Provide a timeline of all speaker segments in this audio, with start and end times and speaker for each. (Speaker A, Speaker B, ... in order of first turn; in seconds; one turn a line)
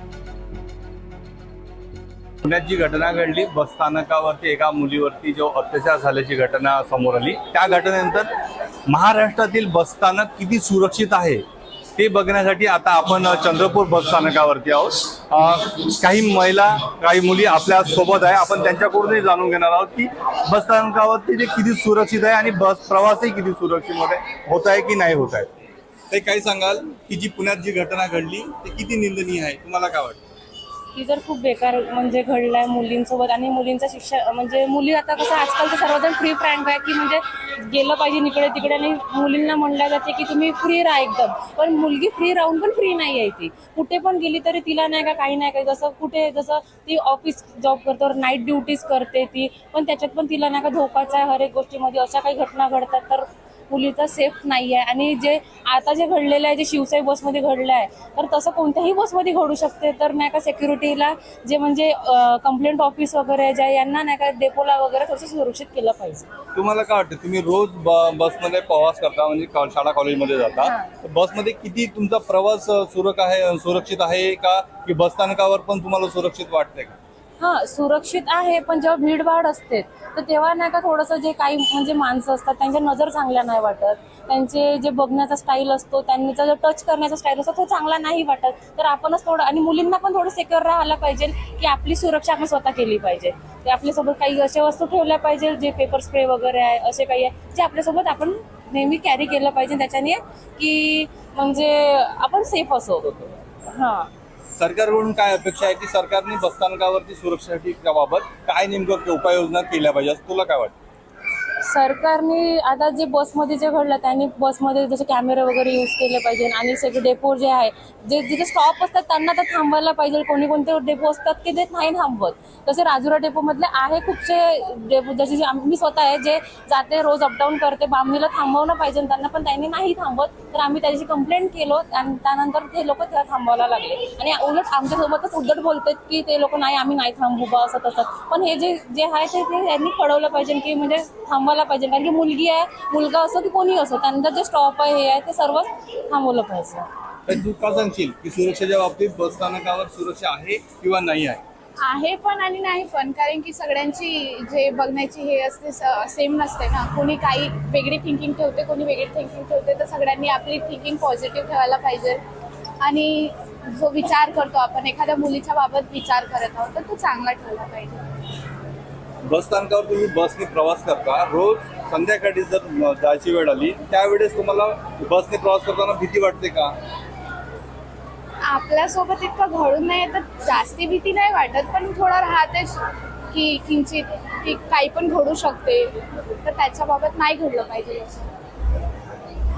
Speaker A: 2.4-8.3
Speaker A: 8.9-11.4
Speaker A: 12.0-25.5
Speaker A: 26.1-30.2
Speaker B: 30.9-66.3
Speaker A: 66.5-77.0
Speaker B: 70.6-70.9
Speaker B: 77.4-104.1
Speaker A: 104.6-110.7
Speaker B: 111.6-146.9
Speaker A: 147.3-151.4
Speaker C: 151.8-162.2
Speaker C: 162.8-168.1
Speaker A: 169.3-176.8
Speaker C: 178.5-182.8
Speaker C: 183.3-185.9
Speaker C: 186.4-188.3